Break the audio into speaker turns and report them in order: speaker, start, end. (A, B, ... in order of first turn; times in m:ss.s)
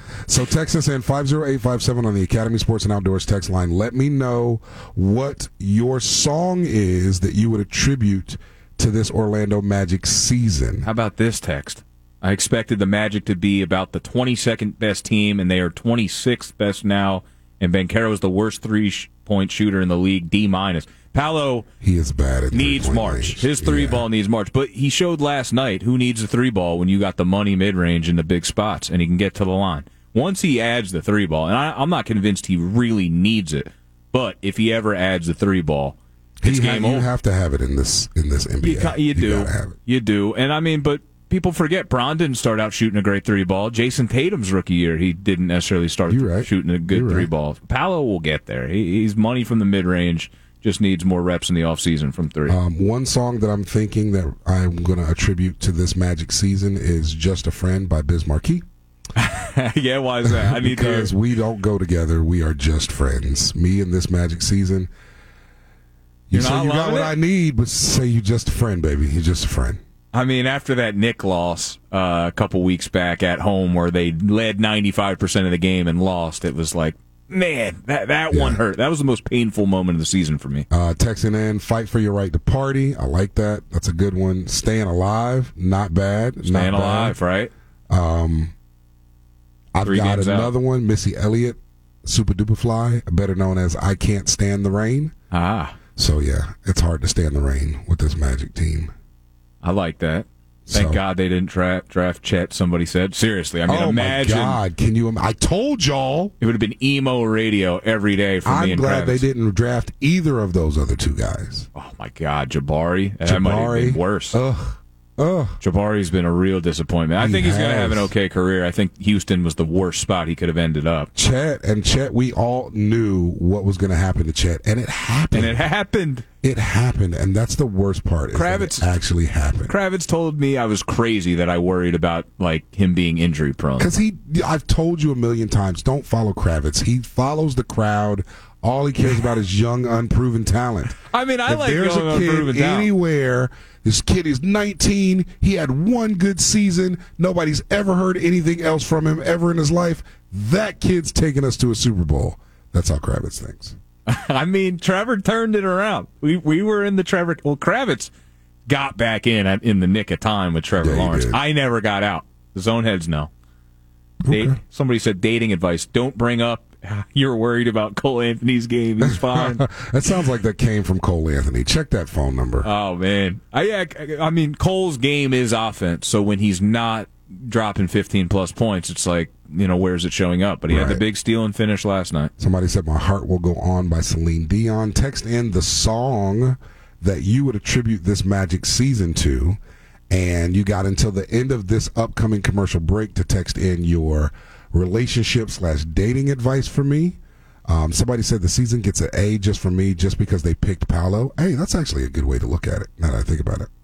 0:00.3-0:10.9 A
0:10.8-0:21.7 B
0:21.8-0:24.1 A
0:22.5-0:37.1 B
0:36.4-0:39.8 A
0:38.6-0:52.6 B
0:46.1-0:47.3 A
0:52.5-0:58.6 A
0:59.2-1:01.1 B
1:00.2-1:04.9 A
1:06.3-1:09.8 A
1:06.3-1:07.2 B
1:10.1-1:20.7 B
1:18.3-1:18.6 A
1:20.7-1:27.2 A
1:26.4-1:27.5 B
1:27.9-1:28.5 A
1:29.7-1:35.1 A
1:29.8-1:30.5 B
1:35.3-1:35.8 B
1:36.0-1:38.9 A
1:39.6-1:44.6 B
1:40.7-1:41.0 A
1:43.7-1:46.3 A
1:46.4-1:49.2 B
1:48.4-1:51.7 A
1:51.8-1:54.4 B
1:53.2-1:55.6 A
1:55.6-2:01.1 B
1:57.2-1:58.1 A
2:01.1-2:05.7 A
2:05.3-2:06.3 B
2:06.4-2:09.8 A
2:08.3-2:08.9 B
2:09.7-2:13.9 B
2:13.8-2:33.8 A
2:21.1-2:22.9 B
2:34.1-2:38.1 B
2:38.7-2:43.3 B
2:40.8-2:41.4 A
2:44.2-2:44.6 A
2:44.3-2:49.7 B
2:49.0-2:52.7 A
2:52.6-3:02.3 B
3:00.7-3:01.0 A
3:02.4-3:09.6 A
3:10.1-3:23.7 A